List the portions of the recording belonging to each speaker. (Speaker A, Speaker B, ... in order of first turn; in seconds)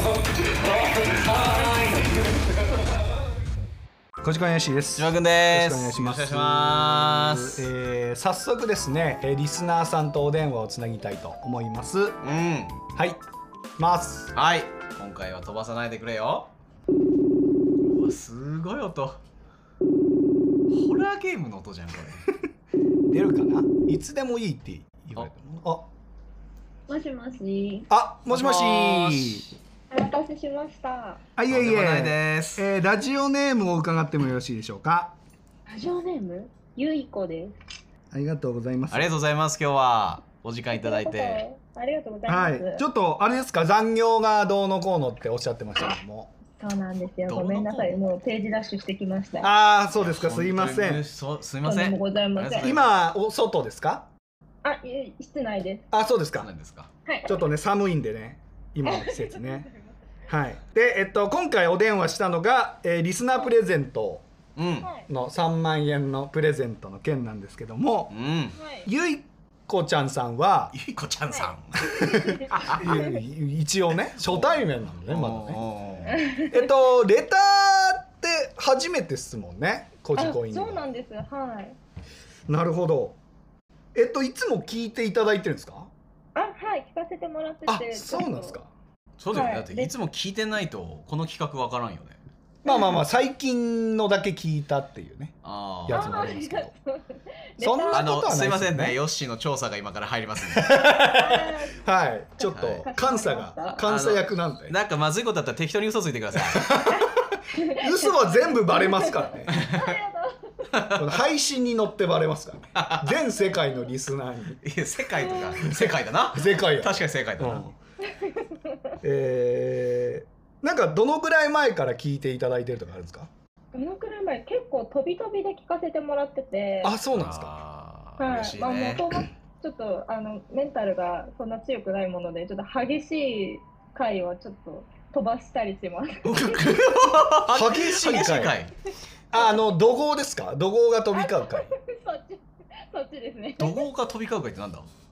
Speaker A: 1.2-1.8, 5.0-7.7, 12.2-12.8, 14.3-16.5, 17.8-19.2, 20.7-22.3, 28.3-29.6, 31.5-32.7, 38.9-41.4, 47.3-48.0, 50.0-52.9, 56.4-56.9, 64.6-64.9, 68.1-68.6, 70.7-71.9, 72.6-72.9, 74.2-76.2, 89.2-92.2, 95.4-96.3, 97.9-100.8, 102.4-102.9, 103.8-106.7, 109.5-110.0, 110.7-111.2, 112.8-113.2, 114.6-117.7, 127.1-129.1, 136.3-138.7, 143.6-144.9
Speaker B: 4.2-12.2, 12.9-13.2, 13.8-14.3, 23.1-25.9, 27.9-29.4, 31.4-35.2, 38.1-39.1, 42.3-46.3, 49.4-51.0, 52.6-54.1, 55.9-56.5, 57.3-59.7, 60.3-64.3, 65.1-68.1, 68.8-70.7, 71.9-75.7, 76.2-80.8, 82.5-83.2, 83.9-85.9, 87.7-88.7, 92.6-96.7, 97.6-99.0, 100.5-104.8, 106.4-109.6, 111.0-114.6, 115.6-117.8, 119.0-123.3, 126.8-127.6, 137.5-138.6, 139.3-141.7
Speaker C: 26.9-27.9, 29.9-31.2, 35.7-37.6, 40.7-42.9, 46.6-49.5, 51.6-52.7, 54.6-55.9, 57.1-57.4, 58.8-60.0, 64.8-65.1, 68.6-68.9, 71.3-73.2, 76.1-76.7, 80.2-81.8, 86.3-88.6, 89.3-89.9, 92.7-93.0, 95.9-98.3, 100.9-101.8, 102.5-103.8, 107.0-110.7, 115.2-115.8, 118.0-118.9, 123.7-127.0, 128.2-136.8, 141.1-143.9